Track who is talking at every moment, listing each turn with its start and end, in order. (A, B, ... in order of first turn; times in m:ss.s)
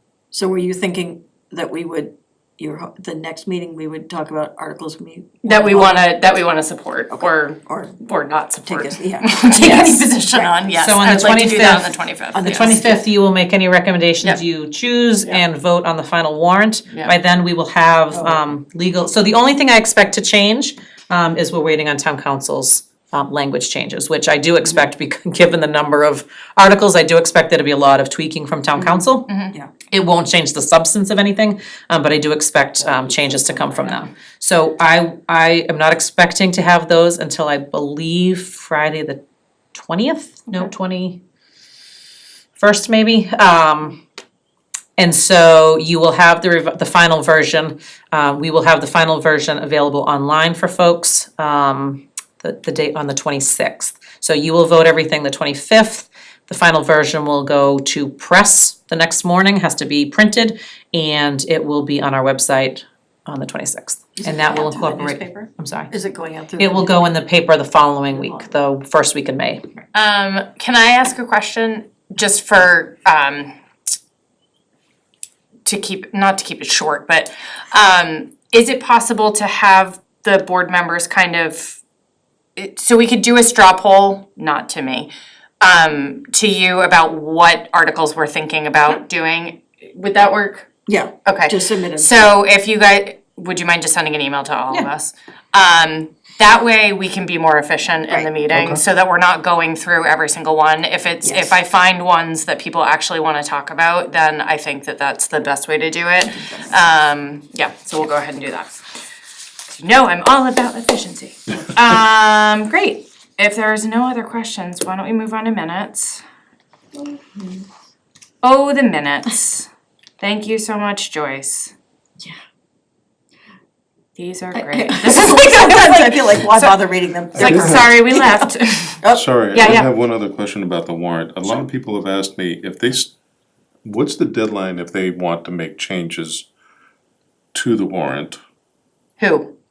0:00.3-0:06.1 A
0:05.4-0:13.0 B
0:07.1-0:08.0 A
0:08.7-0:10.6 A
0:10.7-0:29.3 C
0:12.3-0:13.0 A
0:18.1-0:18.5 A
0:29.3-0:29.5 B
0:29.9-0:39.2 C
0:32.8-0:34.0 A
0:39.7-0:41.2 C
0:42.6-0:44.0 C
0:45.0-1:05.9 C
1:04.2-1:07.1 A
1:06.6-1:09.6 C
1:08.1-1:08.5 A
1:09.9-1:13.5 B
1:15.6-1:21.8 B
1:22.6-1:30.7 B
1:30.9-1:32.2 A
1:31.3-1:48.8 B
1:38.5-1:38.8 D
1:41.2-1:41.6 A
1:46.4-1:46.7 A
1:49.7-1:56.2 B
1:57.0-1:57.7 A
1:58.4-1:59.7 B
2:00.2-2:01.7 B
2:04.2-2:06.7 B
2:04.5-2:09.3 A
2:07.4-2:07.8 D
2:07.4-2:09.9 B
2:09.1-2:13.1 D
2:13.8-2:16.5 D
2:17.5-2:18.4 D
2:19.2-2:19.5 B